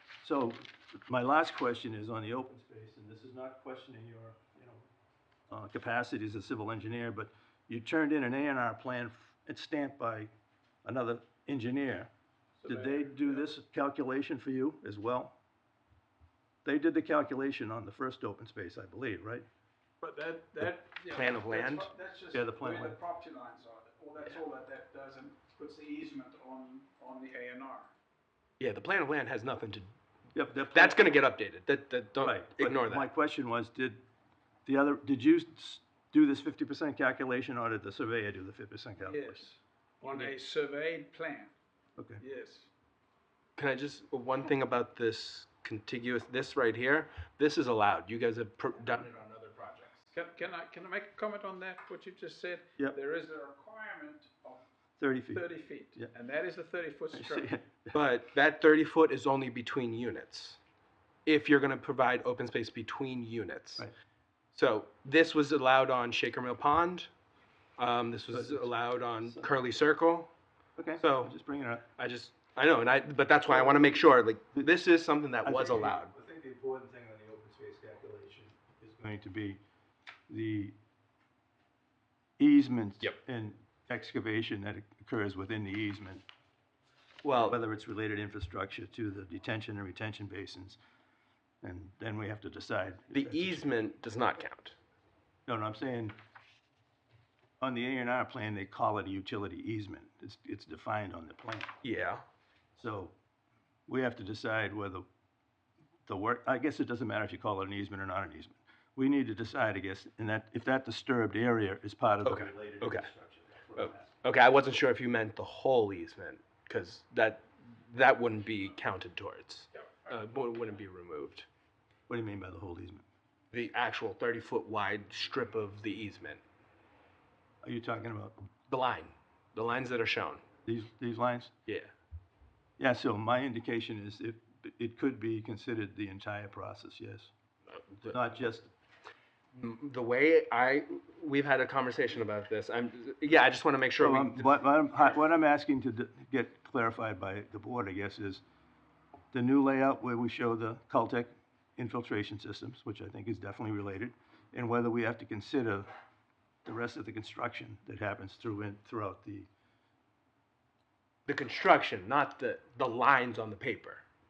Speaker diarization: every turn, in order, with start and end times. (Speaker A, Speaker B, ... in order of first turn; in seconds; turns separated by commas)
Speaker A: 0.2-4.9, Speaker A: 5.5-10.3, Speaker A: 10.8-12.1, Speaker B: 12.6-13.5, Speaker A: 12.7-15.4, Speaker A: 16.6-19.5, Speaker B: 20.0-27.9, Speaker C: 21.1-21.9, Speaker A: 22.3-23.0, Speaker C: 28.6-29.9, Speaker A: 30.4-31.0, Speaker C: 30.7-33.1, Speaker A: 32.2-34.0, Speaker A: 34.7-39.5, Speaker B: 39.0-41.5, Speaker C: 40.1-40.3, Speaker B: 42.2-42.7, Speaker C: 43.6-50.1, Speaker B: 50.1-54.6, Speaker A: 55.0-56.1, Speaker B: 55.3-57.5, Speaker A: 57.1-58.0, Speaker C: 57.9-60.6, Speaker C: 61.3-63.9, Speaker C: 64.5-67.1, Speaker C: 67.8-70.3, Speaker A: 68.3-68.7, Speaker A: 70.8-71.9, Speaker C: 71.0-71.3, Speaker C: 72.0-76.1, Speaker A: 75.4-79.6, Speaker A: 80.3-80.8, Speaker A: 82.4-86.2, Speaker C: 87.2-87.6, Speaker A: 87.3-90.8, Speaker A: 91.6-93.7, Speaker C: 93.1-94.8, Speaker A: 95.5-96.2, Speaker A: 97.6-101.7, Speaker C: 101.8-102.2, Speaker A: 102.8-103.1, Speaker A: 103.9-105.0, Speaker A: 106.1-114.2, Speaker C: 112.2-113.1, Speaker C: 113.8-121.5, Speaker A: 122.1-123.0, Speaker C: 123.5-126.4, Speaker A: 127.6-128.5, Speaker C: 128.7-130.4, Speaker A: 130.7-131.5, Speaker A: 132.8-137.3, Speaker C: 137.7-138.1, Speaker A: 138.1-138.7, Speaker C: 139.6-144.6, Speaker A: 144.0-148.4, Speaker A: 149.3-155.9, Speaker A: 156.7-159.5, Speaker C: 161.3-164.0